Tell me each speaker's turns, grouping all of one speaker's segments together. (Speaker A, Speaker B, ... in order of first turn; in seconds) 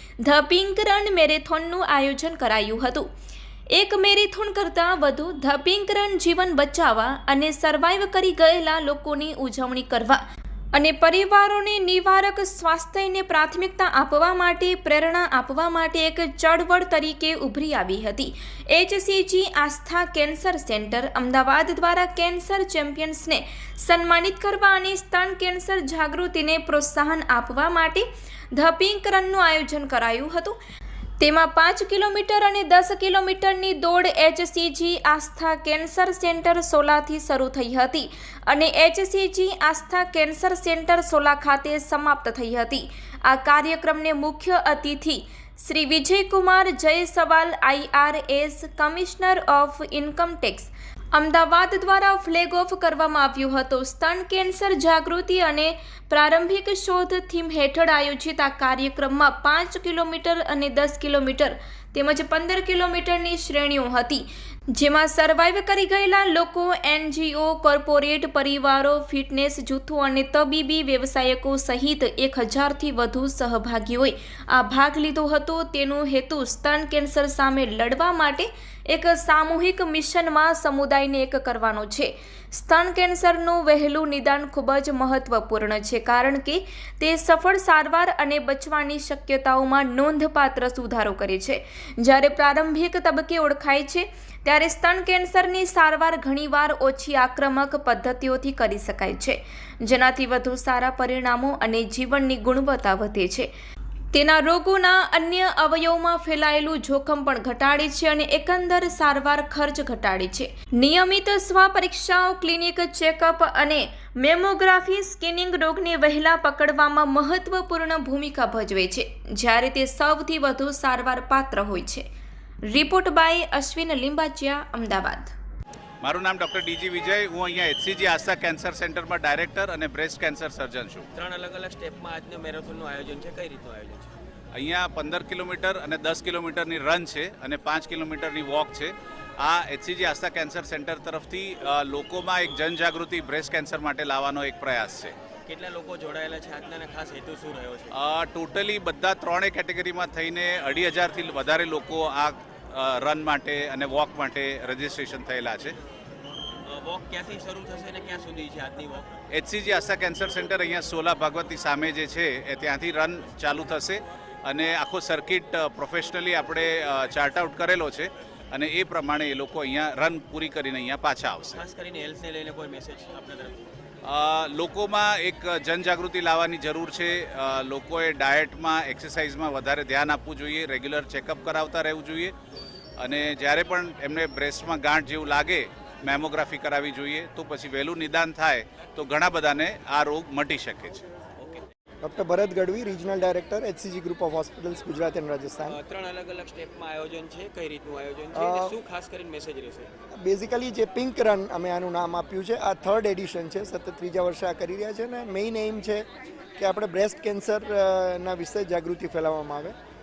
Speaker A: 0.2-3.1, 3.7-10.2, 10.7-30.6, 31.2-103.5, 104.1-122.0, 122.7-125.3
Speaker B: 126.0-131.1, 134.5-145.1, 147.9-155.8, 159.3-171.6, 174.0-182.3, 183.0-191.0
Speaker C: 131.1-134.1, 145.5-147.9, 156.6-159.1, 171.5-173.7, 191.4-191.6, 195.7-199.9
Speaker D: 192.0-195.8, 198.3-198.8, 200.1-209.7